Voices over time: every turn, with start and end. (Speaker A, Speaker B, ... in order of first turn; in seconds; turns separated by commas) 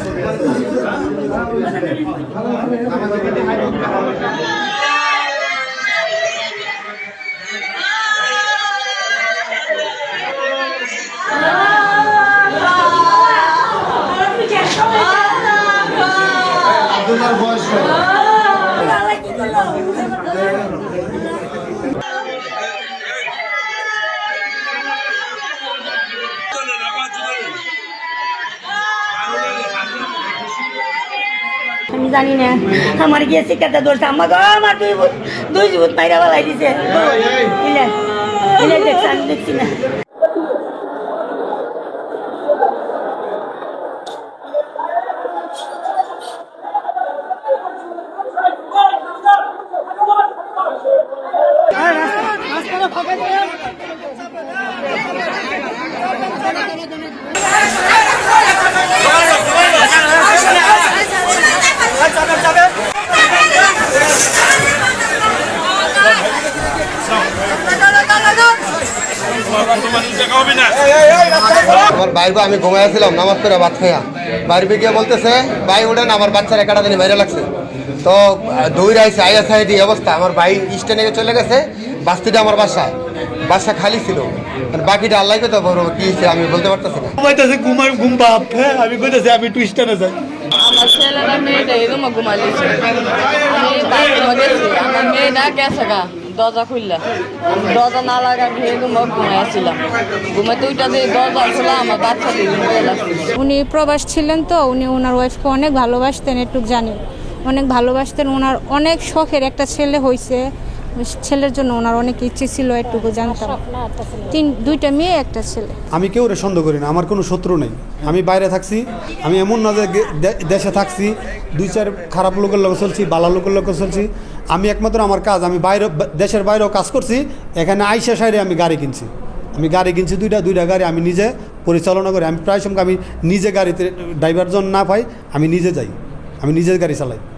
Speaker A: 0.2-0.5, Speaker B: 17.2-17.9, Speaker C: 31.9-37.9, Speaker C: 38.6-39.8, Speaker B: 70.6-77.5, Speaker B: 78.0-82.9, Speaker B: 83.5-87.1, Speaker A: 87.2-90.2, Speaker D: 90.6-97.0, Speaker D: 97.6-103.2, Speaker E: 103.4-110.4, Speaker E: 111.0-113.6, Speaker E: 114.3-115.7, Speaker A: 115.9-137.2